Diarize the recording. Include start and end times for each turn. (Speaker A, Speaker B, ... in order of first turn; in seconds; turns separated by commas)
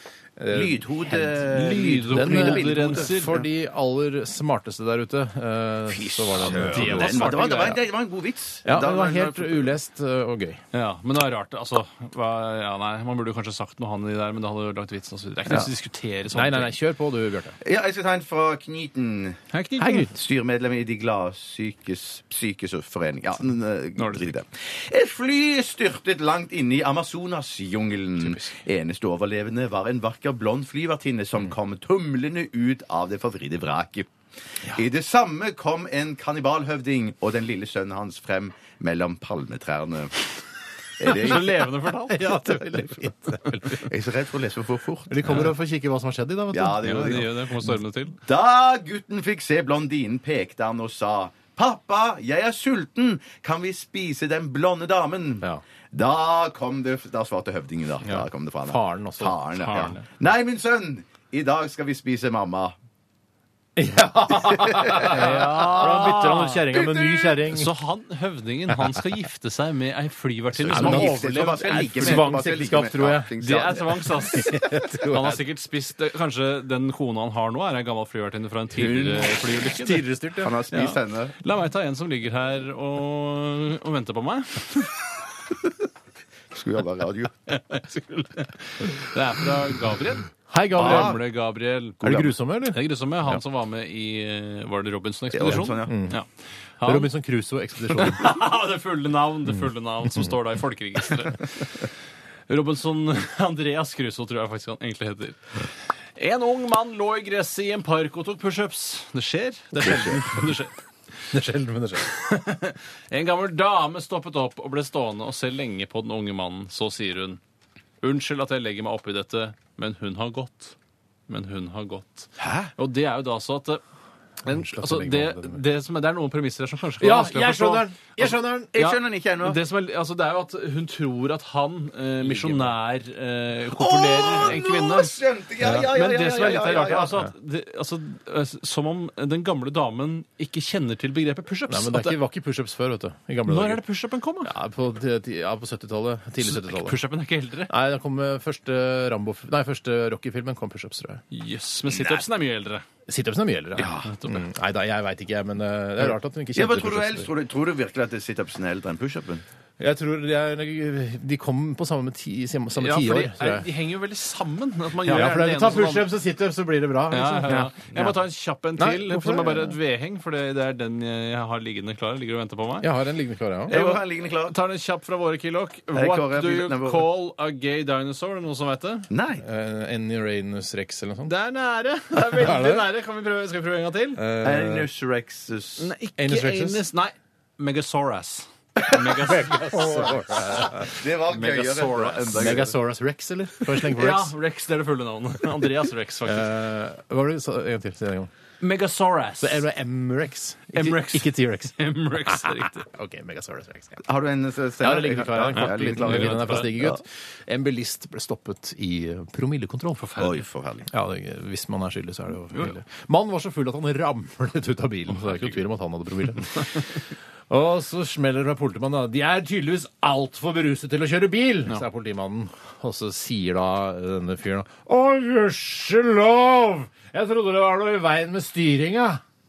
Speaker A: 0.4-1.5, Speaker B: 0.5-3.5, Speaker C: 1.4-3.4, Speaker A: 2.1-7.8, Speaker B: 5.9-9.7, Speaker C: 6.4-7.7, Speaker A: 8.7-10.6, Speaker C: 10.7-16.7, Speaker A: 16.3-17.6, Speaker B: 17.6-19.4, Speaker C: 19.5-20.1, Speaker A: 19.8-20.1, Speaker B: 20.1-34.1, Speaker C: 24.0-24.4, Speaker C: 28.2-28.6, Speaker B: 34.7-40.2, Speaker B: 41.0-41.5, Speaker C: 41.0-42.6, Speaker A: 42.1-43.9, Speaker B: 43.7-45.5, Speaker A: 45.1-47.3, Speaker C: 45.2-45.5, Speaker B: 46.5-47.4, Speaker C: 46.8-48.2, Speaker B: 48.2-62.8, Speaker A: 58.0-60.0, Speaker C: 59.6-60.0, Speaker A: 63.8-67.7, Speaker B: 64.4-67.3, Speaker C: 65.0-66.7, Speaker C: 67.5-72.3, Speaker B: 70.6-74.2, Speaker A: 70.7-73.3, Speaker C: 73.4-80.1, Speaker A: 74.3-75.4, Speaker B: 78.7-81.3, Speaker A: 79.7-80.5, Speaker C: 80.7-84.9, Speaker B: 86.5-87.5, Speaker C: 87.5-92.1, Speaker A: 90.5-91.2, Speaker B: 90.8-91.2, Speaker B: 92.0-92.3, Speaker A: 92.0-93.4, Speaker C: 92.7-96.3, Speaker B: 95.3-96.0, Speaker A: 95.5-96.2, Speaker C: 96.8-97.1, Speaker A: 96.8-98.4, Speaker C: 97.9-101.5, Speaker C: 102.5-105.5, Speaker C: 106.2-110.8, Speaker A: 109.8-110.2, Speaker B: 109.9-110.2, Speaker A: 111.3-112.1, Speaker C: 112.1-117.4, Speaker C: 118.0-120.8, Speaker C: 121.3-123.8, Speaker B: 122.4-122.7, Speaker C: 124.4-142.2, Speaker A: 124.5-125.6, Speaker A: 127.0-128.7, Speaker B: 128.7-129.6, Speaker B: 133.7-137.2, Speaker A: 135.6-135.9, Speaker A: 141.7-143.8, Speaker C: 143.5-144.5, Speaker A: 144.4-147.0, Speaker C: 146.4-147.7, Speaker A: 147.7-151.2, Speaker C: 151.3-152.9, Speaker B: 151.9-152.2, Speaker A: 153.1-157.3, Speaker B: 153.8-154.1, Speaker C: 153.8-154.4, Speaker B: 156.5-159.4, Speaker A: 159.8-163.7, Speaker C: 162.8-166.1, Speaker A: 165.1-167.7, Speaker C: 167.1-172.9, Speaker A: 168.8-169.8, Speaker A: 172.8-173.8, Speaker C: 173.7-179.1, Speaker B: 173.7-174.6, Speaker B: 175.9-177.1, Speaker B: 179.1-179.4, Speaker A: 179.4-181.3, Speaker C: 181.3-184.2, Speaker A: 182.1-182.9, Speaker A: 184.2-184.9, Speaker B: 184.4-185.9, Speaker C: 185.8-190.1, Speaker A: 186.2-186.8, Speaker A: 189.2-191.0, Speaker B: 190.6-192.7, Speaker C: 190.9-192.7, Speaker A: 192.4-194.3, Speaker C: 193.9-196.5, Speaker A: 196.2-198.3, Speaker C: 198.6-199.6, Speaker A: 199.4-204.0, Speaker C: 200.7-202.9, Speaker B: 204.0-207.0, Speaker A: 204.8-210.1, Speaker C: 205.6-206.7, Speaker C: 210.0-210.4, Speaker B: 210.2-210.9, Speaker A: 210.9-229.2, Speaker C: 215.1-215.6